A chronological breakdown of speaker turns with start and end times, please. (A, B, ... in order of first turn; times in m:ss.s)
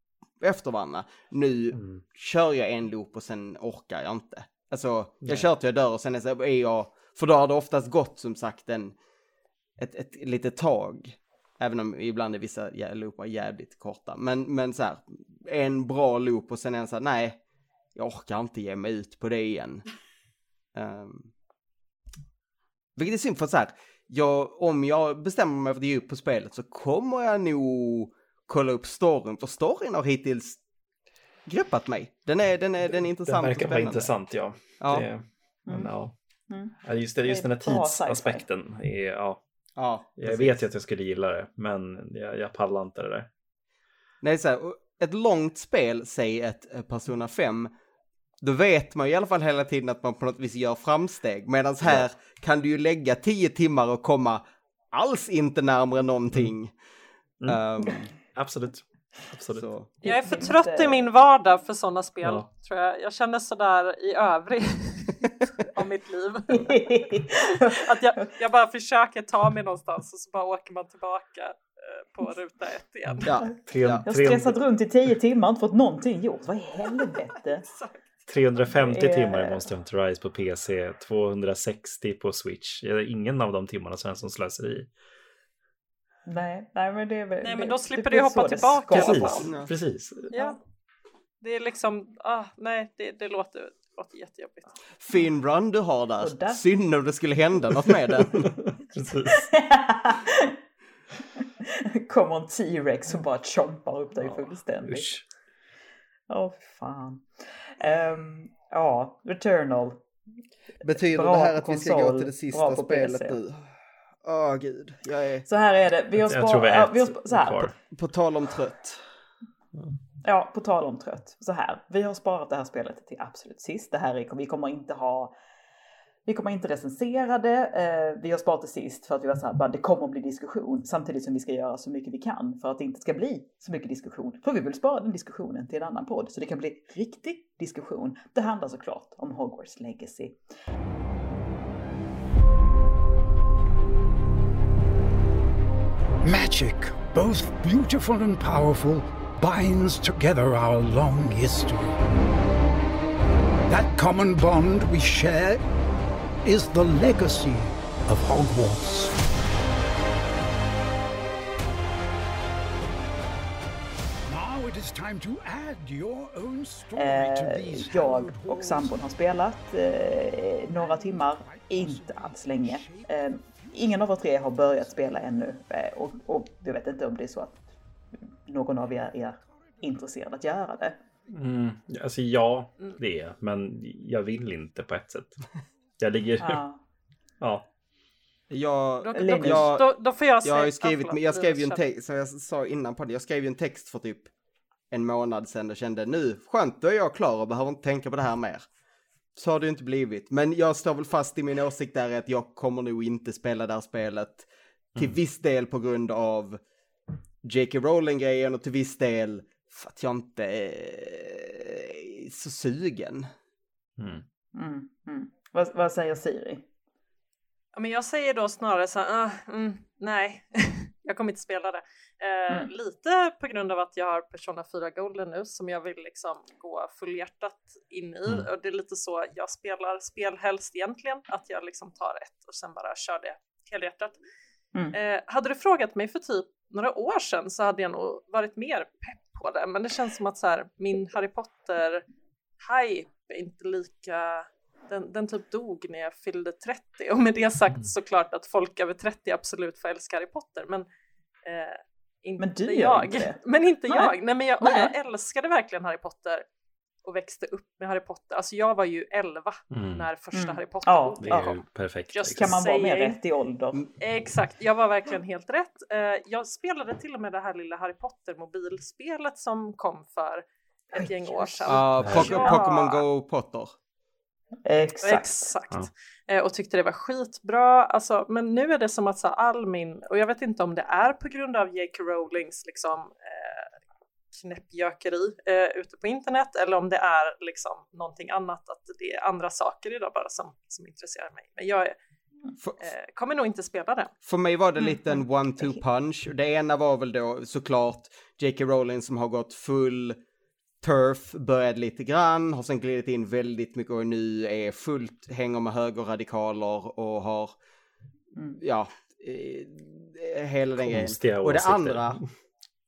0:00.4-0:09.0 A
0:01.7-0:02.0 B
0:09.8-0:17.4 A
0:18.0-0:19.8 A
0:20.8-0:21.3 A
0:23.0-0:30.6 A
0:31.5-0:34.1 A
0:33.2-0:36.1 B
0:34.8-0:35.1 A
0:35.7-0:35.9 C
0:36.5-0:36.8 C
0:36.8-0:39.4 B
0:37.3-0:38.4 C
0:39.8-0:40.6 A
0:40.2-0:43.3 B
0:44.2-0:47.7 A
0:48.4-0:56.7 A
0:57.4-0:58.1 A
0:58.2-0:59.7 B
0:59.6-0:59.9 A
1:00.0-1:01.0 C
1:00.0-1:13.3 D
1:06.5-1:08.3 C
1:13.2-1:14.0 A
1:13.7-1:14.6 B
1:14.1-1:17.7 C
1:17.7-1:17.9 D
1:18.3-1:24.9 B
1:18.6-1:19.7 C
1:26.3-1:29.5 C
1:27.4-1:29.5 D
1:28.9-1:30.3 B
1:29.0-1:29.7 A
1:30.3-1:30.6 D
1:31.4-1:34.8 D
1:35.0-1:38.5 A
1:36.2-1:36.6 C
1:38.3-1:39.5 B
1:39.3-1:40.6 C
1:41.4-1:45.2 C
1:44.2-1:45.2 B
1:46.3-1:47.2 C
1:47.8-1:50.0 C
1:50.8-1:53.7 A
1:51.0-1:53.4 C
1:54.2-1:55.5 A
1:55.5-1:57.7 C
1:56.2-1:57.7 B
1:57.9-1:59.0 A
2:00.2-2:05.3 C
2:06.3-2:20.4 C
2:26.2-2:32.1 E
2:33.7-2:35.6 E
2:36.4-2:39.2 E
2:44.3-2:49.1 E
2:47.0-2:57.6 C
2:50.8-2:53.7 E
2:58.5-3:01.0 C
3:01.3-3:05.4 B
3:06.0-3:06.6 B
3:06.4-3:06.8 C
3:07.4-3:07.6 B
3:08.5-3:09.9 A
3:09.0-3:11.8 D
3:09.2-3:09.7 C
3:10.4-3:14.3 A
3:14.9-3:18.7 A
3:19.4-3:26.6 A
3:27.4-3:33.3 A
3:34.0-3:34.2 B
3:34.6-3:36.6 C
3:37.8-3:54.2 D
3:54.9-4:02.0 D
4:02.7-4:10.8 D
4:11.5-4:16.4 D
4:12.4-4:14.9 C
4:17.0-4:21.6 D
4:19.7-4:20.0 B
4:20.3-4:21.5 C
4:21.2-4:22.6 B
4:22.1-4:23.2 D
4:22.4-4:23.8 C
4:24.0-4:33.0 D
4:30.9-4:32.6 C
4:31.7-4:33.8 A
4:32.0-4:32.3 B
4:34.7-4:35.5 C
4:35.0-4:43.7 D
4:44.3-4:52.0 D
4:52.6-4:52.9 A
4:52.8-4:54.1 D
4:54.2-5:00.2 A
4:54.8-4:55.8 C
5:00.8-5:07.6 A
5:08.6-5:12.2 A
5:10.8-5:12.3 B